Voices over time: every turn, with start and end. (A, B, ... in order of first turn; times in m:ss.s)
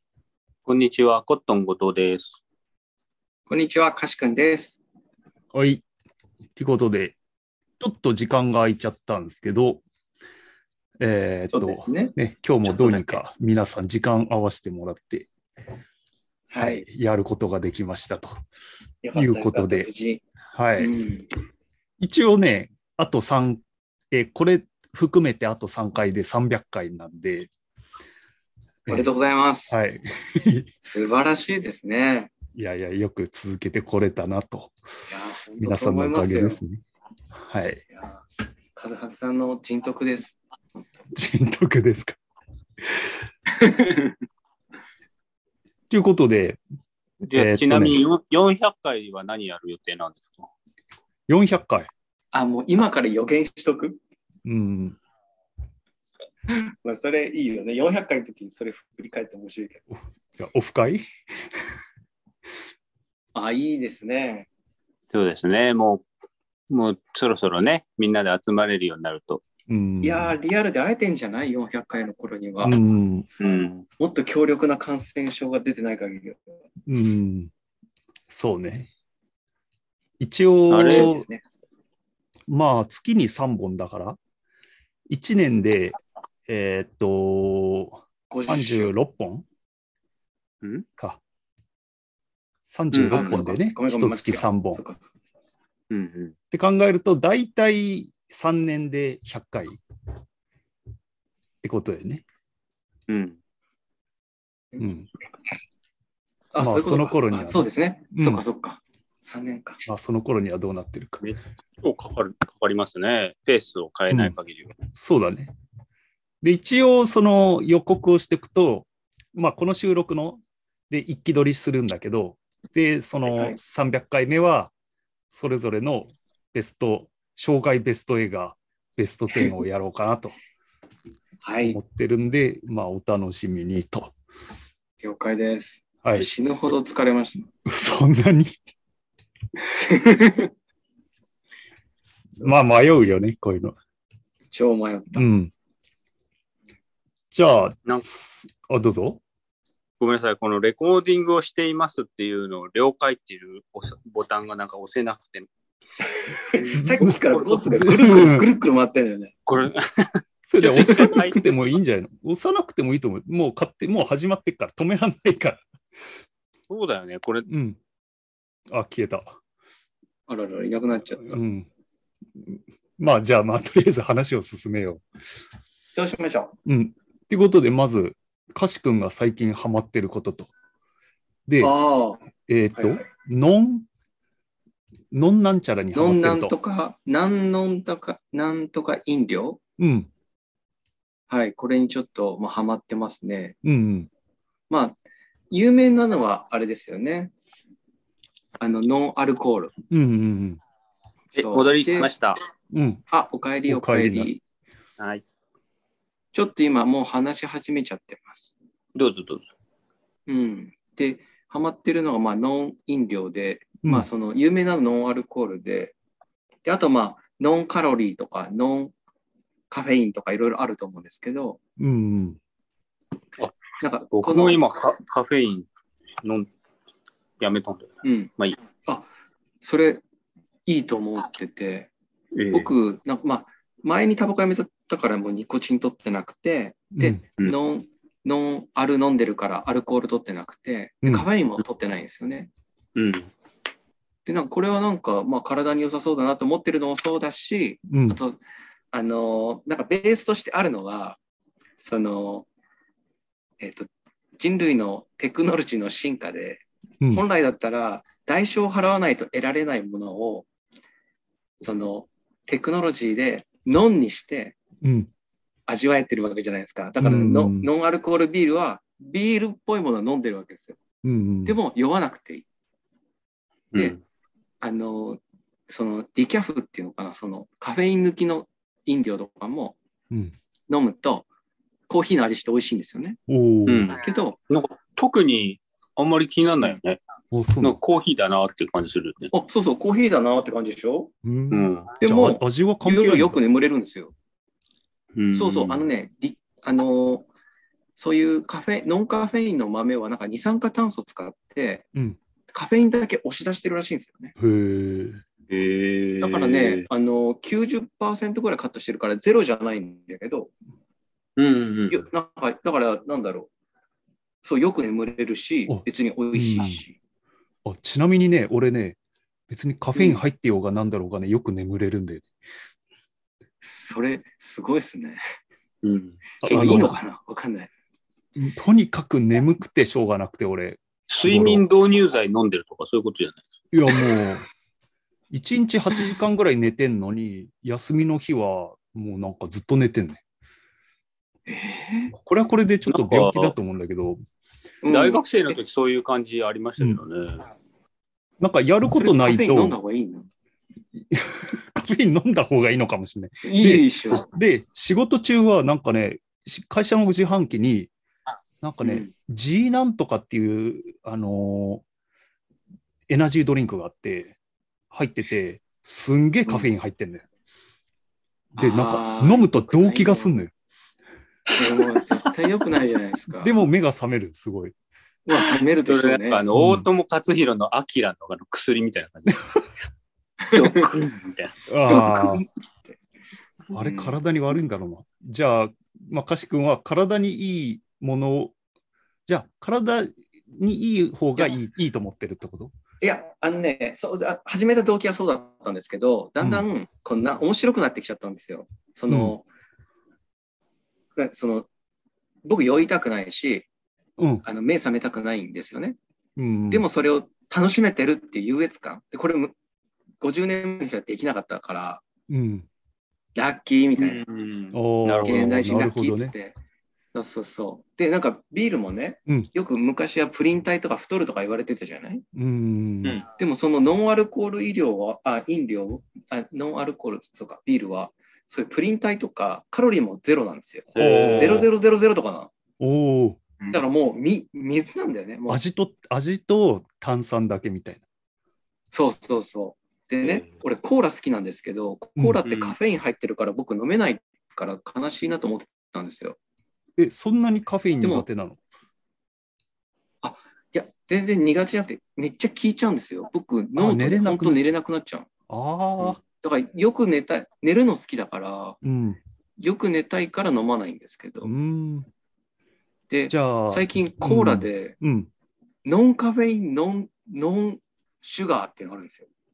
0:00.6-0:02.4 A
0:03.5-0:04.8 B
0:05.5-0:05.8 C
0:06.6-0:07.2 C
0:07.8-0:09.8 C
0:11.0-0:15.3 C
0:11.5-0:13.2 B
0:16.5-0:16.8 B
0:16.6-0:18.3 C
0:19.0-0:20.2 B
0:19.1-0:19.9 C
0:20.5-0:20.9 C
0:20.8-0:21.3 B
0:22.0-0:27.5 C
0:28.9-0:29.8 B
0:29.7-0:30.7 C
0:30.8-0:32.3 B
0:32.5-0:34.7 C
0:35.1-0:36.6 B
0:35.6-0:36.8 C
0:37.4-0:37.8 C
0:37.9-0:38.2 B
0:38.7-0:40.8 B
0:41.1-0:42.2 C
0:43.5-0:44.2 B
0:45.9-0:46.6 C
0:47.2-0:50.5 A
0:47.3-0:48.0 C
0:51.3-0:51.9 C
0:52.3-0:54.0 B
0:54.4-0:55.0 C
0:56.5-0:59.8 B
0:59.9-1:01.0 C
1:03.3-1:04.5 B
1:05.1-1:06.0 A
1:06.7-1:09.4 A
1:09.7-1:10.4 C
1:10.0-1:12.8 B
1:12.6-1:13.3 C
1:13.4-1:13.8 A
1:14.0-1:16.4 B
1:16.8-1:17.5 C
1:18.3-1:18.9 C
1:20.2-1:21.2 C
1:20.7-1:21.1 A
1:20.7-1:21.5 B
1:22.5-1:24.2 C
1:25.1-1:29.4 C
1:28.3-1:28.9 B
1:32.7-1:34.8 C
1:32.9-1:33.4 A
1:33.1-1:35.1 B
1:35.9-1:36.3 A
1:36.5-1:39.8 C
1:41.6-1:42.2 C
1:43.1-1:43.4 A
1:44.8-1:45.1 C
1:46.5-1:49.8 B
1:46.6-1:48.4 C
1:49.8-1:51.3 C
1:51.2-1:54.7 A
1:54.1-1:54.4 C
1:54.9-1:55.5 C
1:56.4-2:04.7 C
2:03.3-2:03.6 B
2:05.3-2:10.3 C
2:11.4-2:11.8 B
2:11.6-2:14.1 C
2:15.0-2:17.5 B
2:17.6-2:18.6 C
2:19.7-2:20.5 B
2:22.4-2:22.7 B
2:22.4-2:23.7 C
2:24.5-2:25.2 B
2:25.1-2:25.5 C
2:27.3-2:29.2 C
2:30.0-2:35.5 A
2:36.1-2:39.3 B
2:36.4-2:37.9 A
2:36.8-2:37.2 C
2:37.7-2:38.5 C
2:39.5-2:41.5 A
2:40.5-2:45.6 C
2:40.8-2:41.2 B
2:46.7-2:47.5 A
2:47.5-2:47.8 C
2:48.7-2:49.4 C
2:50.3-2:51.2 B
2:51.2-2:51.7 C
2:52.4-2:55.0 C
2:55.9-2:56.5 B
2:56.6-3:00.5 C
3:01.5-3:01.7 C
3:01.6-3:02.2 B
3:02.5-3:03.8 C
3:02.8-3:03.0 B
3:05.1-3:06.5 C
3:05.9-3:09.6 B
3:09.8-3:10.1 C
3:11.3-3:13.6 B
3:13.6-3:14.1 C
3:14.7-3:15.0 B
3:15.5-3:17.3 B
3:18.6-3:19.7 B
3:19.9-3:20.6 C
3:21.3-3:22.4 A
3:21.4-3:22.1 B
3:22.7-3:23.0 C
3:23.1-3:24.4 B
3:23.7-3:24.3 C
3:25.0-3:25.2 A
3:26.3-3:28.5 B
3:28.9-3:29.5 A
3:30.3-3:35.9 B
3:33.8-3:34.1 C
3:36.6-3:38.9 B
3:39.7-3:41.6 B
3:41.8-3:42.4 C
3:43.8-3:44.7 B
3:44.1-3:45.7 A
3:46.2-3:46.5 A
3:47.4-3:48.6 A
3:48.0-3:48.3 B
3:49.6-3:50.0 B
3:50.6-3:51.9 B
3:52.3-3:52.7 A
3:52.5-4:02.5 B
3:56.9-3:57.2 C
4:02.9-4:03.3 A
4:04.2-4:08.4 B
4:07.9-4:08.2 C
4:08.9-4:11.2 B
4:11.8-4:12.5 B
4:13.6-4:20.5 B
4:21.6-4:24.6 B
4:24.8-4:25.1 C
4:25.7-4:30.8 B
4:27.0-4:27.7 C
4:31.0-4:31.6 C
4:31.4-4:32.4 B
4:33.7-4:34.0 A
4:34.6-4:39.8 B
4:40.7-4:41.3 B
4:41.9-4:43.2 B
4:43.3-4:43.9 C
4:43.7-4:47.0 A
4:44.0-4:44.4 B
4:47.3-4:47.8 C
4:47.6-4:49.3 A
4:49.3-4:51.1 B
4:51.2-4:53.4 C
4:51.5-4:51.9 A
4:52.0-4:54.1 B
4:55.1-4:55.8 A
4:55.3-4:57.3 B
4:58.0-5:01.9 B
5:01.9-5:02.2 C
5:02.5-5:04.3 B
5:04.4-5:05.2 C
5:05.5-5:06.8 A
5:06.2-5:10.5 B
5:11.4-5:12.0 A
5:11.9-5:13.5 B
5:14.4-5:16.9 B
5:15.7-5:16.8 C
5:17.6-5:19.0 C
5:19.5-5:22.2 C
5:19.9-5:20.2 B
5:23.6-5:25.2 B
5:25.8-5:26.8 A
5:26.4-5:27.0 C
5:26.4-5:27.7 B
5:28.4-5:31.6 C
5:31.1-5:33.4 A
5:33.7-5:34.5 C
5:35.3-5:40.2 C
5:41.5-5:42.1 B
5:42.1-5:44.2 C
5:42.9-5:43.5 A
5:44.8-5:45.6 B
5:44.9-5:47.5 A
5:48.4-5:49.8 C
5:48.9-5:50.3 B
5:51.0-5:57.9 C
5:53.4-5:54.3 B
5:58.6-6:01.8 C
5:58.8-5:59.1 B
6:03.1-6:04.4 C
6:04.9-6:07.2 C
6:08.5-6:10.3 B
6:08.6-6:10.5 C
6:11.6-6:13.5 B
6:11.9-6:12.3 A
6:13.4-6:14.7 C
6:15.2-6:16.4 B
6:15.3-6:19.5 A
6:16.5-6:16.9 C
6:20.4-6:20.9 B
6:20.5-6:21.6 A
6:21.7-6:22.4 C
6:21.9-6:23.0 B
6:23.7-6:28.5 C
6:23.7-6:24.2 B
6:29.3-6:32.7 C
6:33.0-6:39.4 B
6:36.4-6:36.6 C
6:39.1-6:39.3 C
6:41.2-6:41.7 B
6:42.4-6:43.7 B
6:44.2-6:44.4 C
6:44.4-6:46.0 B
6:46.4-6:46.9 C
6:46.7-6:49.5 B
6:50.2-6:52.0 B
6:52.3-6:52.7 C
6:53.3-6:54.2 B
6:54.0-6:55.5 A
6:54.7-6:56.3 C
6:55.2-6:56.6 B
6:57.1-7:02.2 B
7:02.3-7:03.2 C
7:03.3-7:12.5 B
7:10.9-7:11.7 A
7:11.0-7:11.7 C
7:12.8-7:13.4 C
7:13.7-7:15.6 B
7:15.5-7:18.0 C
7:18.9-7:26.4 B
7:20.2-7:20.5 A
7:22.4-7:22.8 A
7:27.0-7:28.6 C
7:28.0-7:28.2 B
7:30.2-7:35.3 B
7:33.8-7:34.7 C
7:35.5-7:36.2 C
7:36.0-7:38.8 B
7:38.8-7:39.2 C
7:39.6-7:41.5 B
7:41.4-7:42.1 C
7:43.1-7:45.0 B
7:43.3-7:45.3 C
7:45.8-7:49.3 B